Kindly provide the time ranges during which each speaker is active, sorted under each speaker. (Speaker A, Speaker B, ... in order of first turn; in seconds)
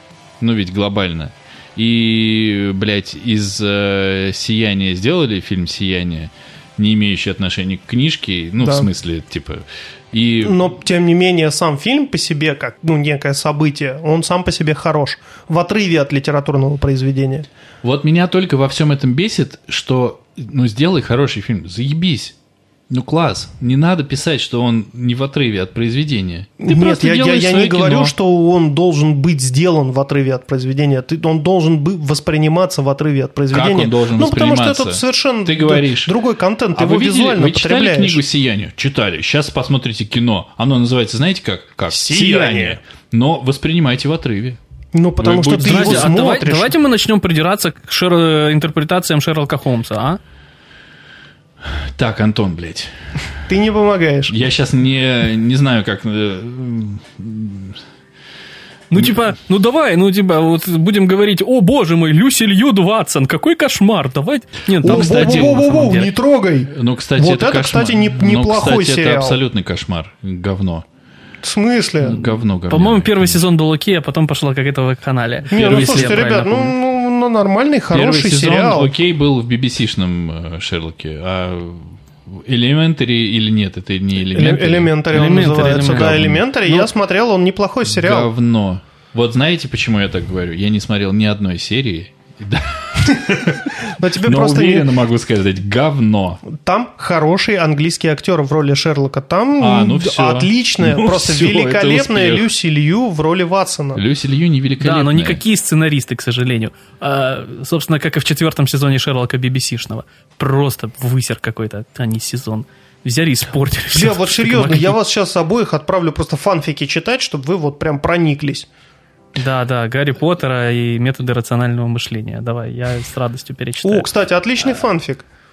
Speaker A: 0.4-10.6, 17.8-22.3, 22.9-28.1, 33.5-36.1, 36.7-44.6, 45.2-46.2, 51.6-52.9, 54.3-57.8, 64.8-65.9, 66.7-70.8, 72.0-73.4, 75.5-76.3, 77.9-85.0, 85.8-86.4, 87.8-96.4, 99.6-102.5, 103.9-105.4
Speaker B: 8.6-8.9, 10.4-17.4, 26.6-38.2, 41.9-42.8, 44.9-46.7, 53.5-54.4, 64.8-69.4, 71.4-72.2, 75.5-78.9, 84.3-88.3, 93.2-94.9, 96.5-104.0, 113.9-118.7, 123.8-125.2
Speaker C: 45.6-50.2, 58.9-66.1, 72.7-76.7, 85.1-86.9, 104.8-115.0, 119.3-124.1